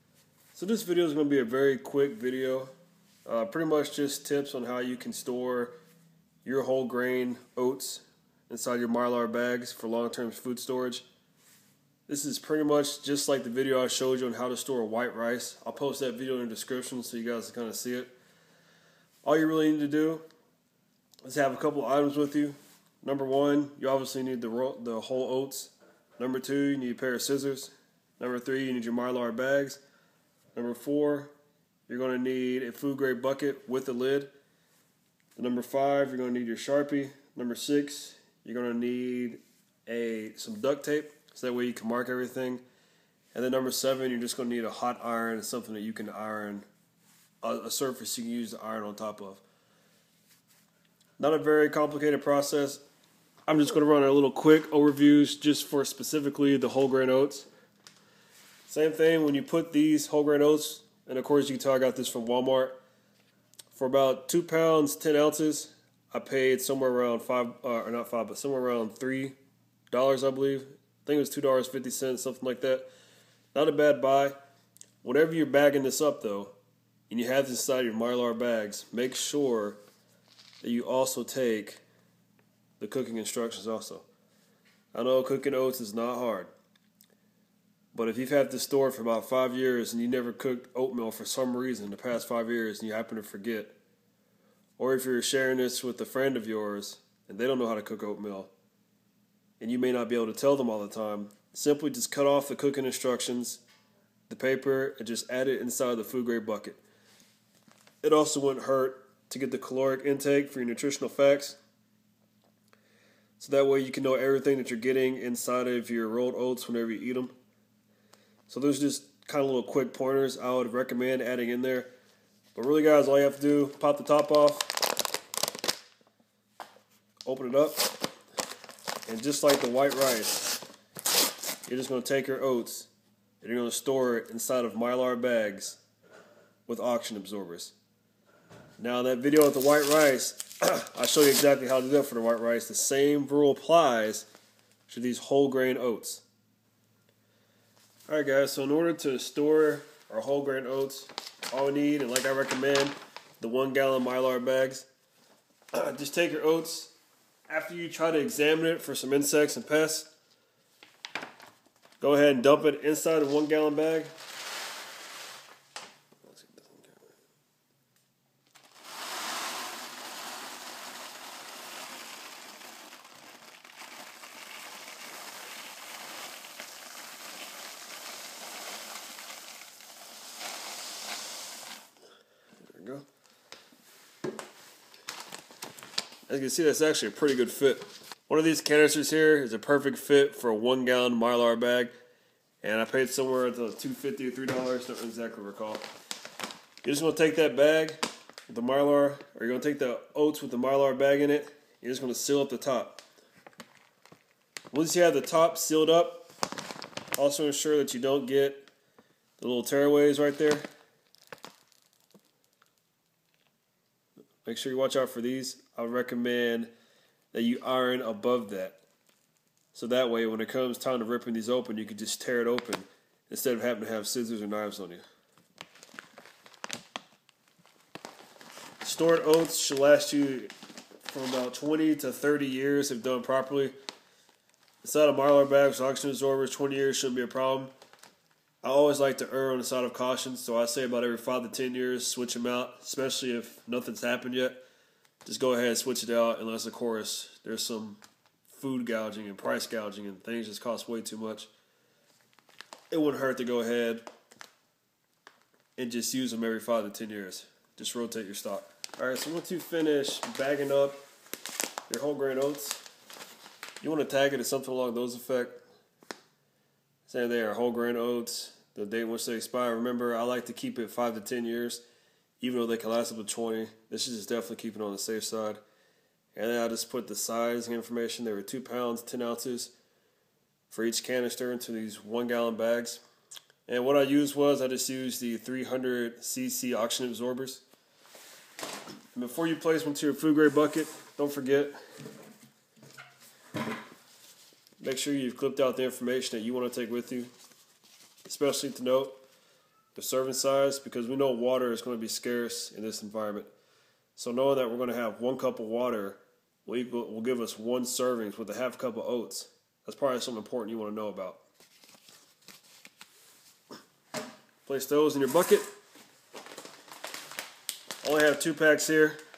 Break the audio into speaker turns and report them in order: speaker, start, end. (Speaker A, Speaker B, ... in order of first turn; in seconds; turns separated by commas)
Speaker A: 0.5-2.7, Speaker A: 3.2-5.7, Speaker A: 6.4-11.0, Speaker A: 12.1-18.1, Speaker A: 19.2-20.2, Speaker A: 21.2-29.8, Speaker A: 30.5-31.3, Speaker A: 31.9-34.3, Speaker A: 35.4-42.6, Speaker A: 43.3-46.7, Speaker A: 47.4-49.4, Speaker A: 51.2-52.8, Speaker A: 53.5-57.5, Speaker A: 58.7-62.8, Speaker A: 63.7-69.4, Speaker A: 69.9-72.9, Speaker A: 73.5-74.3, Speaker A: 75.0-76.5, Speaker A: 77.1-79.8, Speaker A: 80.6-81.8, Speaker A: 82.8-84.0, Speaker A: 84.9-86.5, Speaker A: 87.9-93.8, Speaker A: 94.8-98.5, Speaker A: 99.6-103.6, Speaker A: 104.3-106.8, Speaker A: 108.0-111.6, Speaker A: 113.4-117.3, Speaker A: 118.5-121.9, Speaker A: 122.5-124.7, Speaker A: 127.2-127.9, Speaker A: 129.1-130.6, Speaker A: 131.7-132.9, Speaker A: 133.4-135.8, Speaker A: 136.7-137.8, Speaker A: 138.8-144.3, Speaker A: 144.9-146.2, Speaker A: 148.1-154.9, Speaker A: 155.7-156.9, Speaker A: 157.5-160.1, Speaker A: 162.0-164.1, Speaker A: 166.2-167.1, Speaker A: 182.6-183.1, Speaker A: 186.3-191.9, Speaker A: 192.6-195.9, Speaker A: 196.8-203.0, Speaker A: 204.7-206.3, Speaker A: 207.2-208.7, Speaker A: 209.4-210.7, Speaker A: 214.4-216.7, Speaker A: 217.3-218.8, Speaker A: 219.7-225.0, Speaker A: 228.8-230.5, Speaker A: 231.0-233.7, Speaker A: 234.8-237.7, Speaker A: 238.6-244.6, Speaker A: 245.2-251.5, Speaker A: 252.9-254.0, Speaker A: 255.8-261.0, Speaker A: 261.9-262.8, Speaker A: 263.8-265.6, Speaker A: 267.1-271.8, Speaker A: 272.4-275.6, Speaker A: 276.3-279.7, Speaker A: 280.7-283.0, Speaker A: 283.7-287.6, Speaker A: 289.1-291.8, Speaker A: 294.8-297.3, Speaker A: 298.2-299.2, Speaker A: 299.9-303.5, Speaker A: 304.1-311.4, Speaker A: 314.6-315.7, Speaker A: 318.0-319.2